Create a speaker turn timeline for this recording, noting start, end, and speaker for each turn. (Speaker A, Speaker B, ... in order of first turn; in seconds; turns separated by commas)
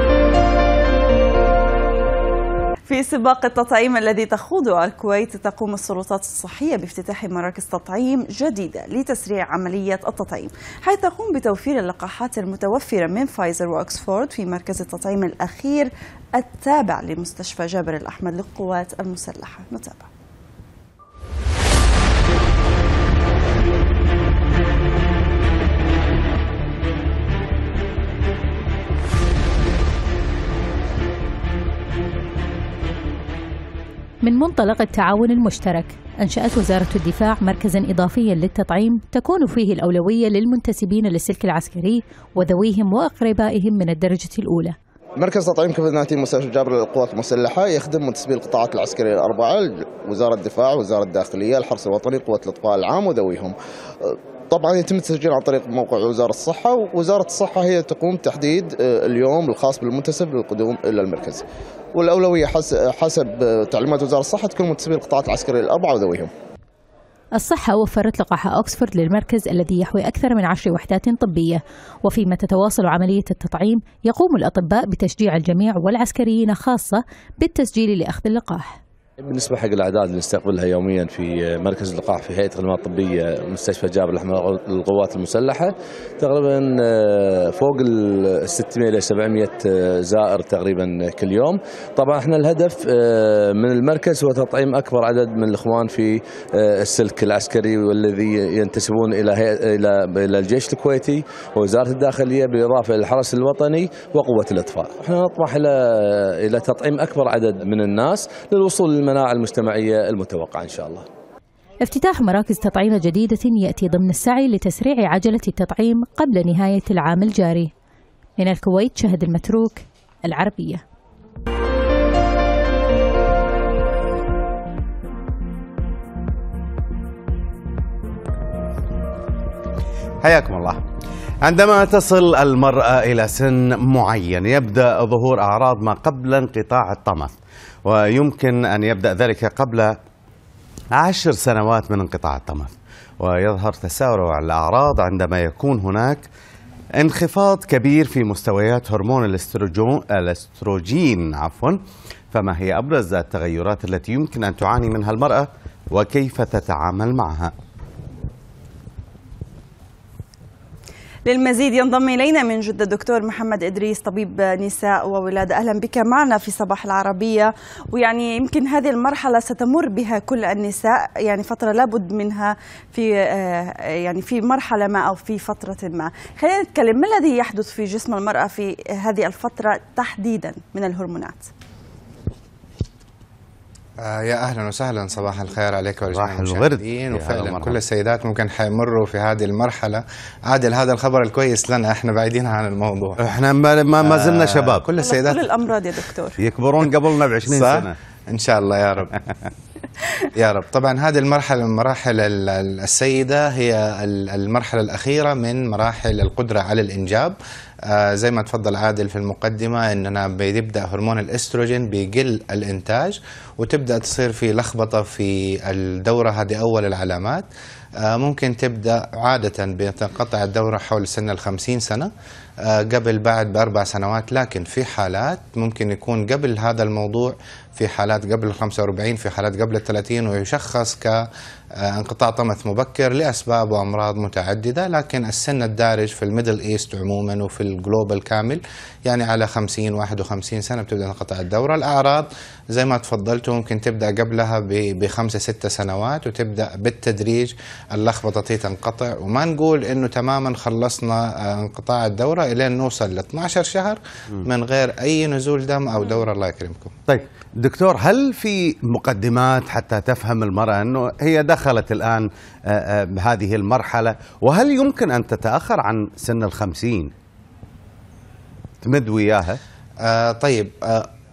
Speaker A: 2.9-20.1, Speaker B: 34.2-44.7, Speaker C: 45.2-53.5, Speaker C: 54.0-66.3, Speaker B: 67.3-78.8, Speaker D: 79.2-111.0, Speaker B: 111.8-117.7, Speaker B: 118.4-120.8, Speaker E: 130.2-130.8, Speaker E: 131.4-137.3, Speaker E: 137.8-139.9, Speaker E: 140.9-146.3, Speaker E: 147.0-151.8, Speaker E: 152.3-157.5, Speaker A: 161.2-181.5, Speaker F: 184.0-193.2, Speaker E: 186.1-187.8, Speaker E: 193.2-194.8, Speaker F: 194.0-195.5, Speaker A: 195.0-196.4, Speaker E: 196.4-197.9, Speaker F: 197.4-199.2, Speaker F: 200.4-207.3, Speaker F: 207.8-217.4, Speaker F: 218.0-222.1, Speaker F: 222.6-256.9, Speaker E: 257.1-267.1, Speaker E: 268.8-269.6, Speaker F: 270.0-271.1